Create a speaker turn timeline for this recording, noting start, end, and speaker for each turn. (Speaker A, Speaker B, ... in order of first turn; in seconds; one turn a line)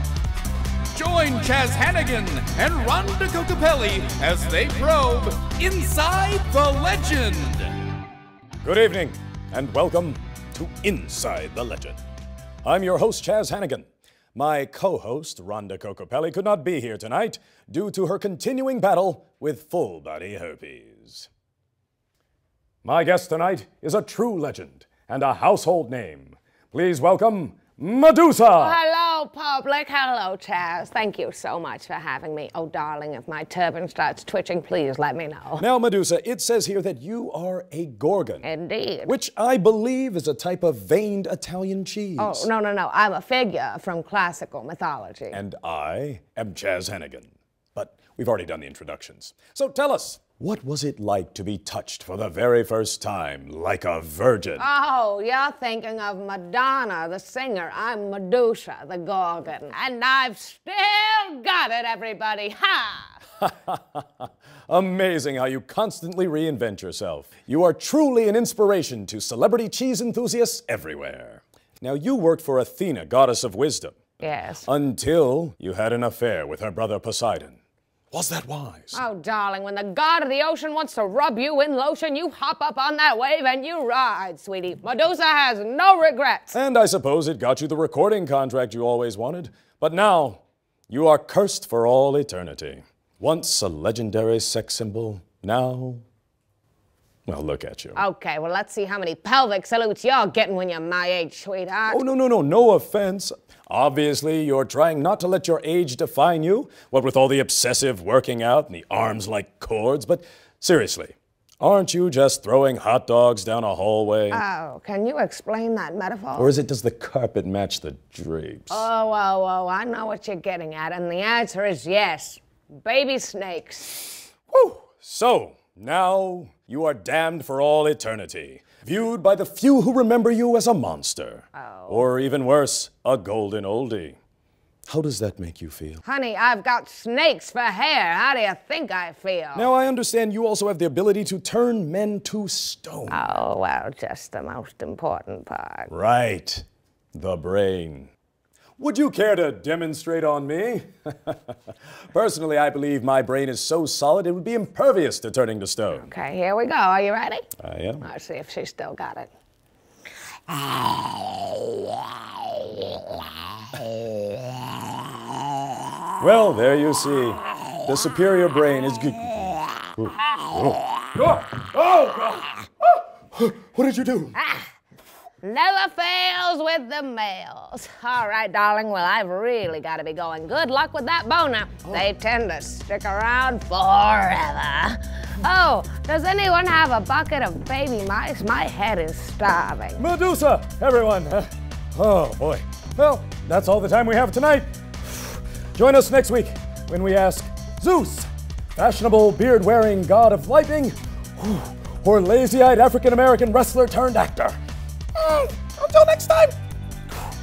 Speaker A: 0.9-7.7
Speaker B: 8.6-12.0
Speaker B: 12.6-21.3
Speaker B: 22.8-28.8
Speaker C: 28.6-35.6
Speaker B: 35.6-38.5
Speaker C: 38.4-39.1
Speaker B: 39.0-42.5
Speaker C: 42.2-45.4
Speaker B: 45.3-54.6
Speaker C: 54.6-63.2
Speaker B: 63.4-74.0
Speaker C: 74.2-74.7
Speaker B: 74.7-77.6
Speaker B: 78.1-79.0
Speaker C: 78.9-86.6
Speaker B: 86.5-96.0
Speaker B: 97.3-98.0
Speaker C: 97.9-102.0
Speaker B: 101.9-114.4
Speaker C: 114.3-116.5
Speaker B: 116.3-118.9
Speaker C: 118.7-124.2
Speaker B: 124.5-134.2
Speaker C: 131.5-132.1
Speaker B: 134.9-136.0
Speaker C: 136.0-139.7
Speaker B: 139.5-143.2
Speaker C: 143.1-145.9
Speaker B: 145.9-148.1
Speaker B: 148.8-151.5
Speaker B: 152.1-156.1
Speaker C: 155.9-157.5
Speaker B: 157.6-158.0
Speaker C: 158.0-159.3
Speaker C: 160.5-163.1
Speaker B: 166.2-174.3
Speaker C: 174.3-174.7
Speaker C: 175.4-190.1
Speaker B: 190.0-204.6
Speaker B: 205.1-206.5